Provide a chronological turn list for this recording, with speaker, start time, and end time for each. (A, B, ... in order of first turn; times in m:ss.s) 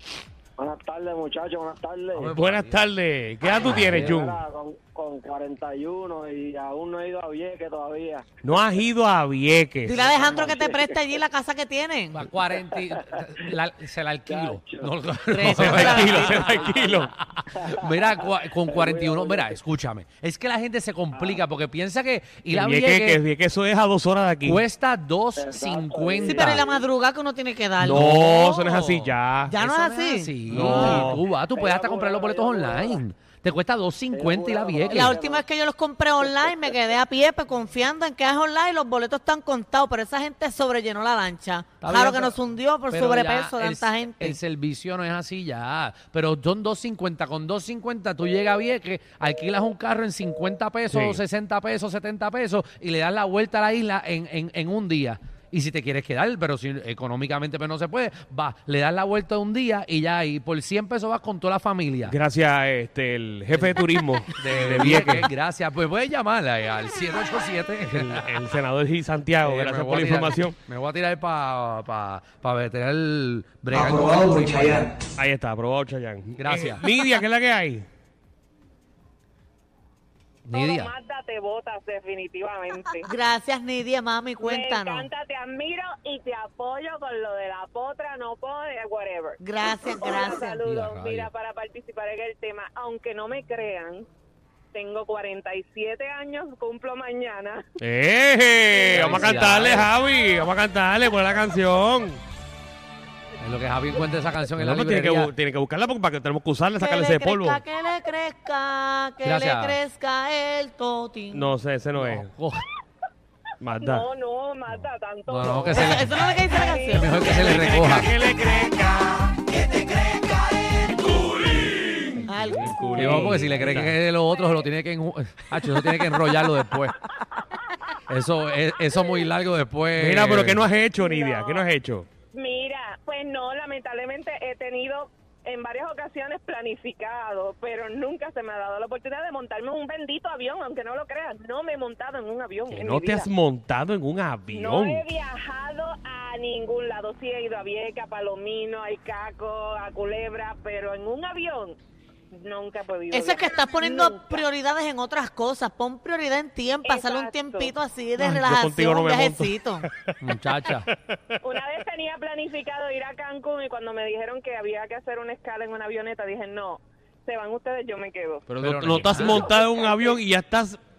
0:00.6-0:02.3 A
0:02.1-0:02.8 B
0:02.3-0:04.4 C
0:03.6-0:04.2 B
0:04.2-0:08.2 A
0:08.4-0:10.1 C
0:09.8-0:12.3 D
0:10.0-0:10.9 A
0:12.1-0:23.2 B
0:14.3-0:14.9 A
0:15.3-0:16.5 D
0:15.4-0:17.1 C
0:18.7-0:19.4 A
0:21.1-0:21.4 A
0:22.5-0:24.6 C
0:24.4-0:26.6 B
0:25.4-0:26.8 A
0:26.2-0:28.4 D
0:27.8-0:29.5 C
0:27.9-0:35.2 B
0:29.5-0:30.3 D
0:30.5-0:31.2 C
0:30.5-0:30.8 A
0:31.5-0:33.0 A
0:34.1-0:35.4 A
0:34.9-0:44.4 D
0:41.8-1:02.2 B
0:50.9-0:51.2 C
1:02.1-1:05.3 C
1:03.5-1:03.8 B
1:04.3-1:08.4 B
1:08.0-1:10.5 C
1:09.4-1:14.9 B
1:15.2-1:17.8 C
1:16.4-1:16.8 B
1:20.5-1:20.9 B
1:20.5-1:23.1 E
1:23.1-1:25.1 D
1:24.4-1:34.0 E
1:29.4-1:30.6 D
1:30.6-1:31.3 B
1:34.7-1:37.6 E
1:37.8-1:42.2 C
1:38.7-1:39.6 E
1:38.9-1:39.9 B
1:43.4-1:45.3 B
1:44.6-1:47.6 C
1:46.8-1:51.5 D
1:49.2-1:49.8 B
1:51.3-1:52.3 C
1:52.0-1:52.6 B
1:53.6-1:54.0 C
1:53.8-1:57.2 E
1:54.7-1:56.1 B
1:55.7-1:57.3 D
1:56.9-1:58.1 B
1:57.3-1:59.4 C
2:01.2-2:02.0 C
2:02.2-2:07.0 B
2:02.3-2:03.4 D
2:02.6-2:04.0 C
2:02.8-2:03.3 E
2:08.1-2:10.7 B
2:10.0-2:12.1 C
2:11.0-2:11.7 E
2:12.3-2:23.3 E
2:22.7-2:25.0 C
2:24.5-2:31.8 E
2:32.3-2:34.4 E
2:33.1-2:39.9 D
2:36.8-2:37.7 E
2:38.2-2:40.1 C
2:40.2-2:40.9 B
2:40.9-2:41.2 C
2:41.4-2:48.4 E
2:48.5-2:50.8 C
2:48.6-2:49.5 B
2:49.2-2:50.2 E